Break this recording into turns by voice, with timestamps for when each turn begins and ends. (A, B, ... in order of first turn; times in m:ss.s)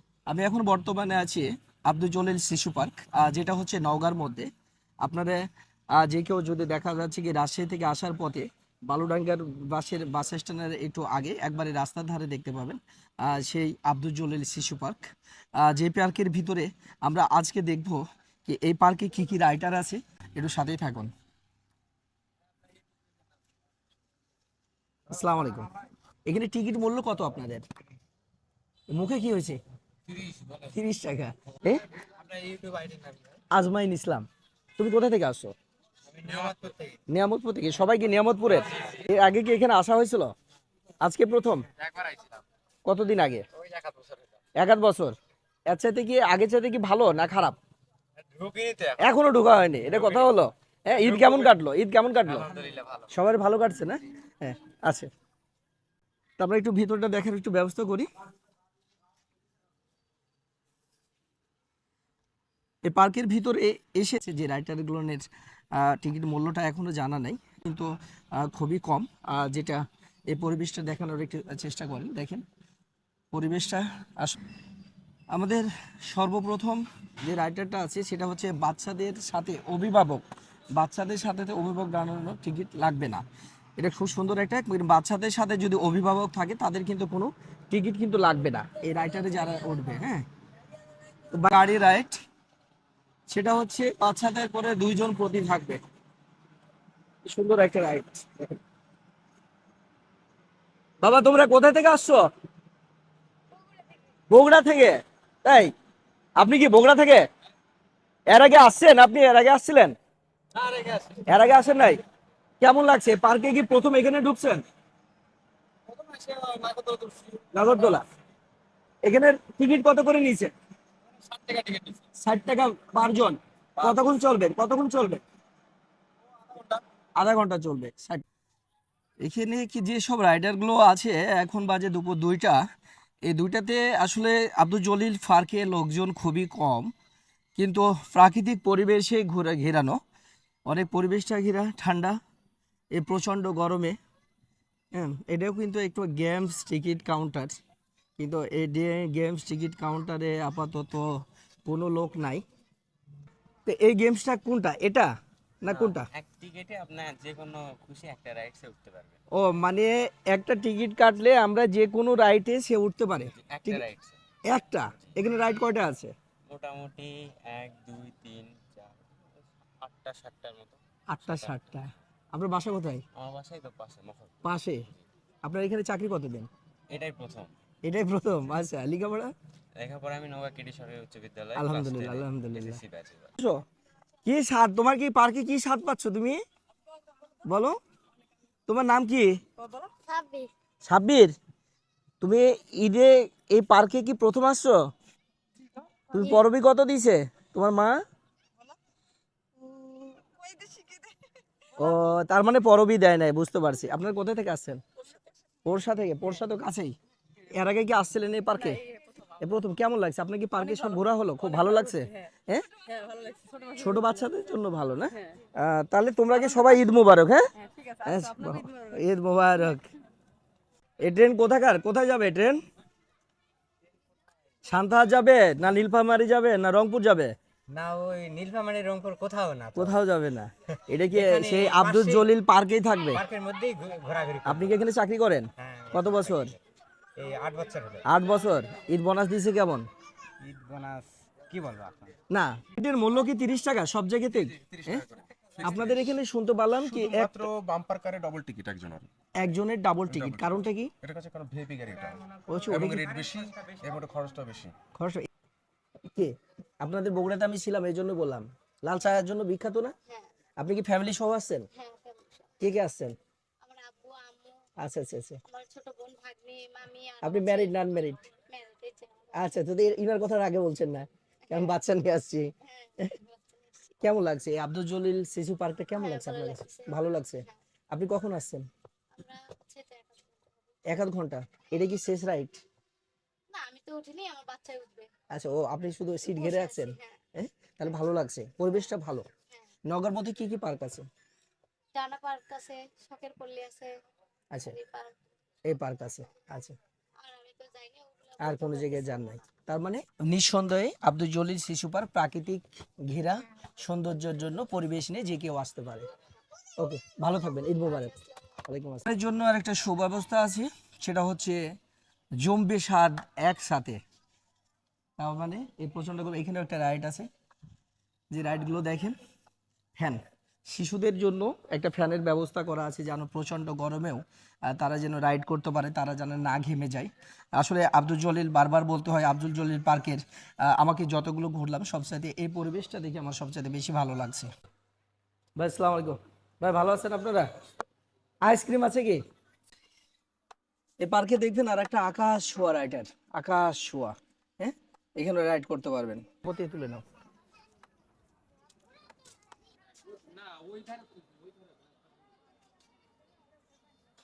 0:00.3-0:04.5 A
0:05.0-0:15.0 A
0:15.6-0:21.1 A
0:25.1-0:25.7 A
0:26.2-0:27.6 A
0:28.9-0:29.6 A
0:30.2-0:30.5 B
0:30.5-0:31.8 A
0:32.0-0:33.4 B
0:33.5-0:34.3 A
0:34.8-0:35.5 A
0:36.1-0:37.0 B
0:37.1-0:40.3 A
0:41.0-0:41.7 A
0:41.8-0:42.4 B
0:42.8-0:43.4 A
0:43.6-0:44.2 B
0:44.6-0:45.2 A
0:45.7-0:47.6 A
0:48.4-0:49.0 B
0:49.0-0:52.5 A
0:52.4-0:53.1 B
0:53.1-0:55.1 A
0:56.4-0:58.1 A
1:02.8-1:12.4 A
1:13.3-1:14.4 A
1:15.3-1:20.2 A
1:20.7-1:23.2 A
1:23.8-1:30.2 A
1:31.3-1:32.2 A
1:33.3-1:35.8 A
1:37.2-1:38.5 A
1:41.0-1:42.3 A
1:43.6-1:43.9 C
1:44.3-1:45.7 A
1:46.4-1:47.2 A
1:48.3-1:50.0 A
1:50.6-1:51.1 B
1:51.2-1:52.0 A
1:52.6-1:54.6 A
1:55.9-1:57.3 B
1:57.3-1:58.0 A
1:59.0-2:00.5 A
2:02.1-2:05.2 A
2:07.2-2:08.2 A
2:09.2-2:12.6 A
2:13.2-2:16.9 A
2:17.6-2:20.0 A
2:20.6-2:22.2 A
2:22.9-2:24.0 A
2:24.9-2:27.6 A
2:28.2-2:31.1 A
2:31.6-2:32.4 A
2:33.6-2:35.1 A
2:35.6-2:36.1 A
2:35.6-2:39.2 D
2:39.3-2:43.9 A
2:43.2-2:44.2 D
2:44.5-2:46.1 A
2:46.4-2:51.9 D
2:51.1-2:53.0 A
2:53.2-2:55.0 D
2:54.4-2:54.8 A
2:55.4-2:56.5 A
2:56.9-2:57.5 D
2:57.8-2:59.3 A
2:59.8-3:03.3 D
3:01.5-3:02.8 A
3:04.2-3:06.4 A
3:07.4-3:07.8 A
3:08.7-3:09.4 A
3:09.8-3:10.5 C
3:10.8-3:11.3 A
3:12.2-3:14.8 A
3:16.1-3:18.0 A
3:19.6-3:20.7 C
3:21.8-3:24.8 A
3:25.6-3:26.9 A
3:27.5-3:28.8 A
3:29.4-3:32.7 A
3:33.6-3:39.8 A
3:41.0-3:42.6 A
3:44.6-3:47.3 A
3:47.7-3:50.0 B
3:49.7-3:53.2 A
3:51.1-3:52.2 B
3:53.1-3:54.8 B
3:54.4-3:56.5 A
3:55.6-3:56.6 B
3:57.2-3:58.0 B
3:58.0-3:59.9 A
4:00.4-4:02.2 B
4:02.3-4:05.0 A
4:04.5-4:06.1 E
4:05.6-4:07.5 A
4:06.8-4:09.1 E
4:09.4-4:10.9 A
4:10.1-4:14.8 E
4:12.1-4:13.8 B
4:12.5-4:13.1 A
4:14.9-4:15.3 A
4:16.1-4:19.9 A
4:20.6-4:21.7 A
4:21.7-4:22.6 C
4:22.6-4:23.1 A
4:23.6-4:24.6 C
4:24.8-4:25.4 A
4:25.4-4:29.6 C
4:27.2-4:28.2 A
4:29.3-4:32.5 A
4:31.4-4:31.8 C
4:32.6-4:34.0 C
4:34.0-4:38.6 A
4:35.9-4:37.5 C
4:39.1-4:40.8 C
4:40.9-4:42.6 A
4:43.5-4:45.1 C
4:45.3-4:49.2 A
4:46.3-4:47.2 C
4:49.5-4:49.8 C
4:49.9-4:51.0 A
4:51.9-4:53.9 C
4:54.5-4:54.8 A
4:54.6-4:55.2 C
4:55.6-4:56.8 A
4:57.2-4:59.5 C
4:58.4-5:06.1 A
5:06.8-5:11.6 A
5:07.8-5:08.4 C
5:12.4-5:14.0 A
5:15.2-5:17.3 A
5:18.3-5:19.2 A
5:20.0-5:34.5 A
5:35.6-5:37.5 A
5:38.4-5:39.2 A
5:41.0-5:47.0 A